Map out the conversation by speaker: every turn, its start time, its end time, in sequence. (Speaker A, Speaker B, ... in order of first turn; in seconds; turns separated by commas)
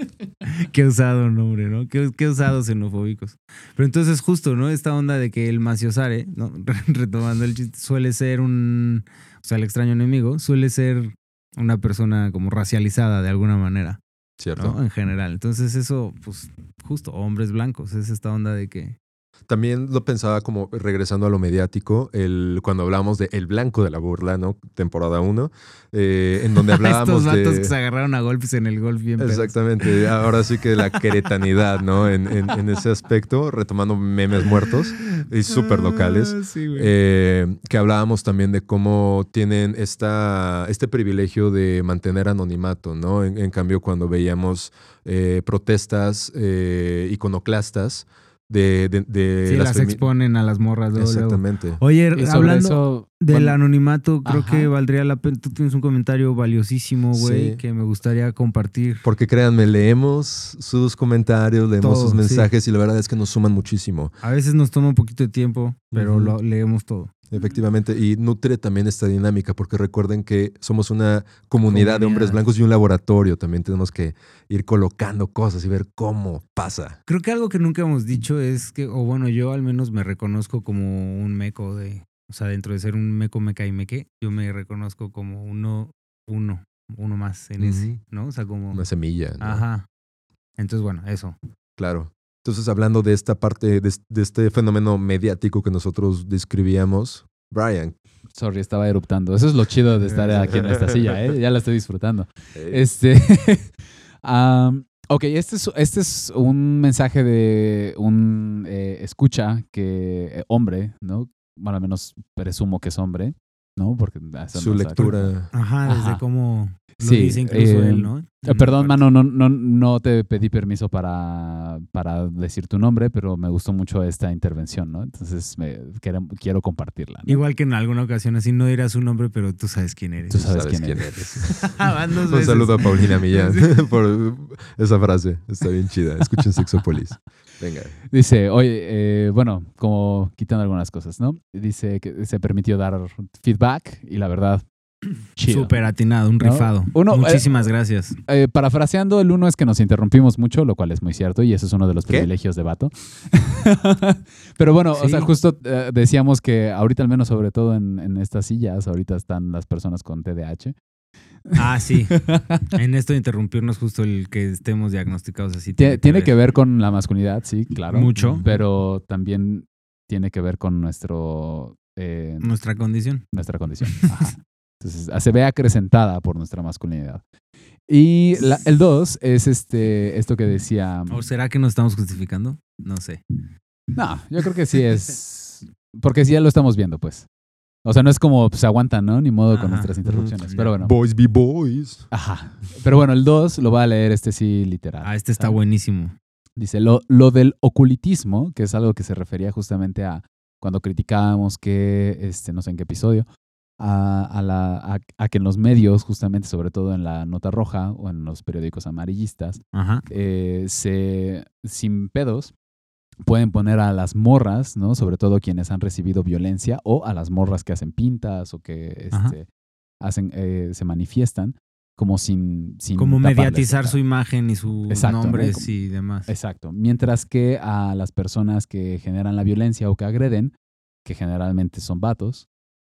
Speaker A: 0.4-14.0, Speaker B: 14.4-14.8, Speaker A: 14.6-19.0, Speaker B: 19.5-27.7, Speaker A: 26.7-30.1, Speaker B: 29.2-50.0, Speaker A: 34.6-36.9, Speaker A: 49.5-59.1, Speaker B: 51.0-51.8, Speaker C: 52.1-53.6, Speaker C: 54.2-54.7, Speaker B: 57.1-57.6, Speaker B: 59.0-64.1, Speaker A: 61.8-62.5, Speaker A: 64.2-67.1, Speaker B: 65.9-66.4, Speaker B: 67.3-77.0, Speaker A: 71.7-72.4, Speaker A: 77.1-88.9, Speaker B: 87.6-88.0, Speaker B: 88.7-89.7, Speaker A: 89.4-89.9, Speaker A: 90.6-91.4, Speaker B: 91.8-98.0, Speaker C: 98.3-115.3, Speaker A: 100.1-100.5, Speaker B: 100.3-101.2, Speaker B: 102.5-102.8, Speaker B: 114.5-115.5, Speaker A: 115.5-119.0, Speaker C: 115.9-116.2, Speaker C: 117.0-127.4, Speaker A: 127.3-133.8, Speaker C: 130.3-131.2, Speaker B: 130.5-138.0, Speaker C: 138.1-144.7, Speaker C: 145.2-145.7, Speaker A: 145.4-148.2, Speaker C: 146.4-147.5, Speaker C: 148.3-160.8, Speaker A: 154.9-155.3, Speaker A: 161.6-166.4, Speaker C: 162.1-162.7, Speaker C: 165.8-172.5, Speaker A: 167.9-168.4, Speaker B: 168.2-168.6, Speaker A: 172.4-173.3, Speaker C: 173.3-177.2, Speaker C: 177.9-181.2, Speaker A: 181.1-183.2, Speaker C: 184.0-187.3, Speaker C: 187.8-190.9, Speaker A: 189.5-189.9, Speaker B: 190.1-192.1, Speaker C: 192.1-195.6, Speaker A: 195.0-196.2, Speaker C: 196.6-203.3, Speaker C: 203.8-212.5, Speaker A: 209.7-210.0, Speaker C: 213.2-219.5, Speaker C: 220.0-224.0, Speaker A: 223.0-226.3, Speaker C: 224.9-225.7, Speaker C: 226.3-232.5